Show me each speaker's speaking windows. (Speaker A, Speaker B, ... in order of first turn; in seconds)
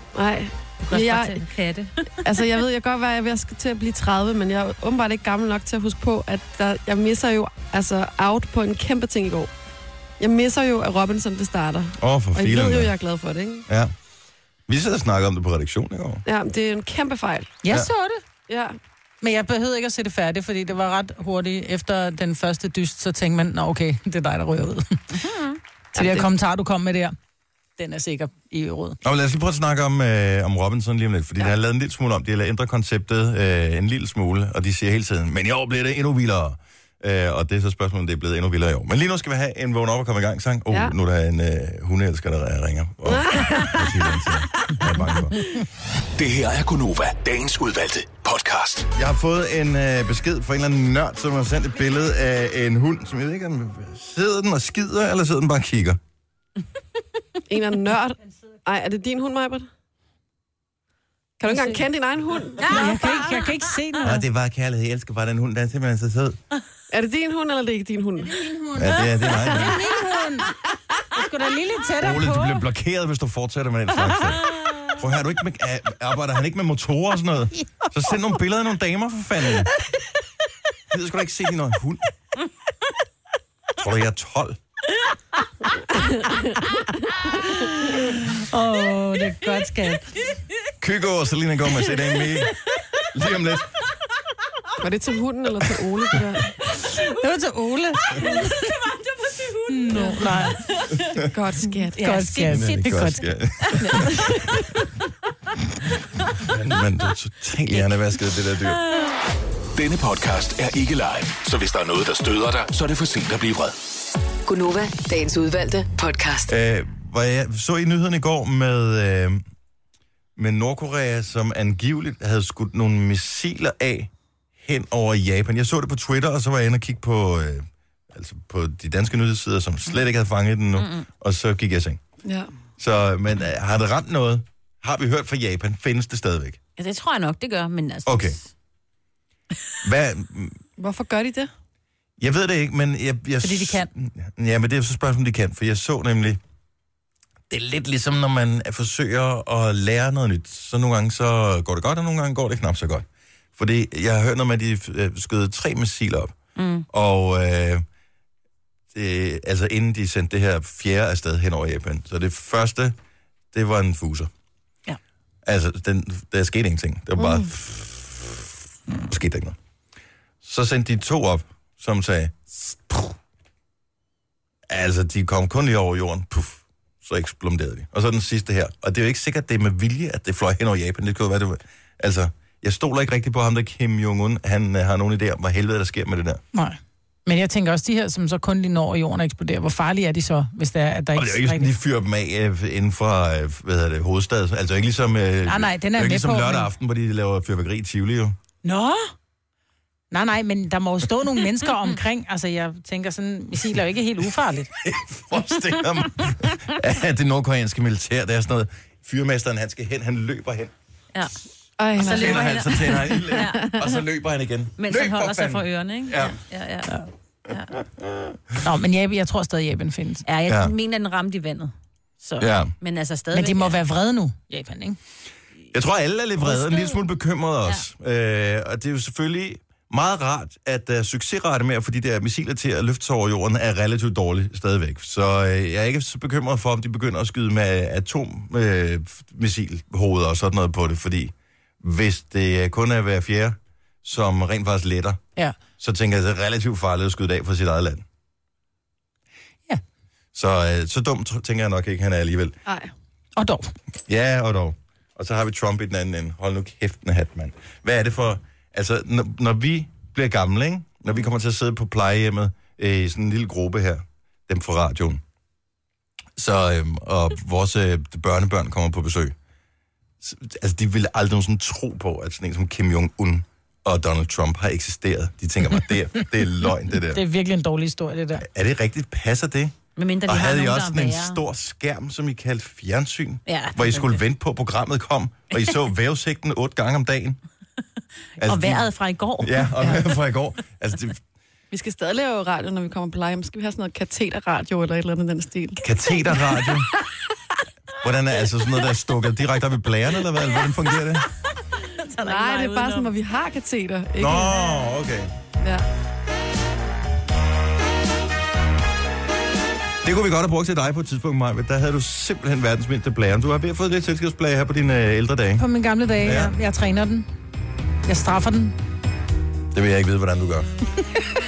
Speaker A: 0.1-1.4, 2.2-9.5, 10.2-13.6, 16.2-17.5, 18.5-18.8, 26.0-26.3, 43.1-44.0, 57.5-59.7, 61.4-63.3, 66.9-68.6, 85.9-86.5, 94.8-96.9, 98.2-98.5, 101.2-102.0, 132.2-132.5, 140.8-141.5, 167.2-167.5, 211.8-213.8, 252.7-252.9, 291.7-296.8, 302.2-304.8, 305.6-305.9
Speaker B: 0.8-2.3, 25.2-25.6, 98.2-101.1, 101.9-103.1, 103.6-104.0, 108.8-109.1, 130.8-131.1, 136.8-138.5, 143.4-143.9, 156.6-156.9, 211.9-213.8, 214.8-216.9, 220.2-223.8, 226.5-227.0, 279.9-281.4, 283.5-284.2, 288.4-290.1, 301.8-303.1
Speaker C: 12.0-12.9, 13.7-13.9, 14.7-16.2, 29.0-45.4, 48.9-56.0, 64.0-66.4, 68.7-69.8, 72.0-79.7, 80.9-82.0, 83.8-84.6, 90.8-92.5, 93.1-93.7, 102.5-104.7, 106.3-108.8, 116.5-119.4, 120.3-132.0, 132.8-136.6, 138.1-138.4, 139.8-140.6, 142.2-146.4, 147.5-156.3, 156.9-157.8, 158.9-163.0, 163.5-164.3, 165.4-169.6, 170.4-173.1, 174.7-186.4, 191.1-198.3, 204.8-210.7, 212.0-216.4, 217.5-218.6, 220.5-220.7, 222.4-222.7, 225.7-245.2, 245.8-248.0, 250.3-252.6, 254.1-265.2, 266.4-269.3, 270.2-277.2, 278.4-287.4, 288.4-291.2, 295.8-296.9, 297.9-301.3, 304.2-305.3, 310.0-315.6, 316.2-316.5, 319.7-320.7
Speaker D: 17.6-18.2, 19.2-25.1, 25.9-27.1, 27.8-29.0, 61.5-61.8, 62.7-64.2, 68.9-70.5, 71.1-72.6, 87.4-90.0, 97.1-98.4, 99.7-100.6, 102.0-103.2, 186.5-191.7, 195.4-196.7, 198.6-199.1, 200.1-204.7, 218.6-220.2, 223.3-225.0, 253.4-253.7, 277.1-278.4, 315.6-317.3, 318.1-318.8
Speaker E: 46.1-48.9, 109.8-113.8
Speaker F: 114.5-116.5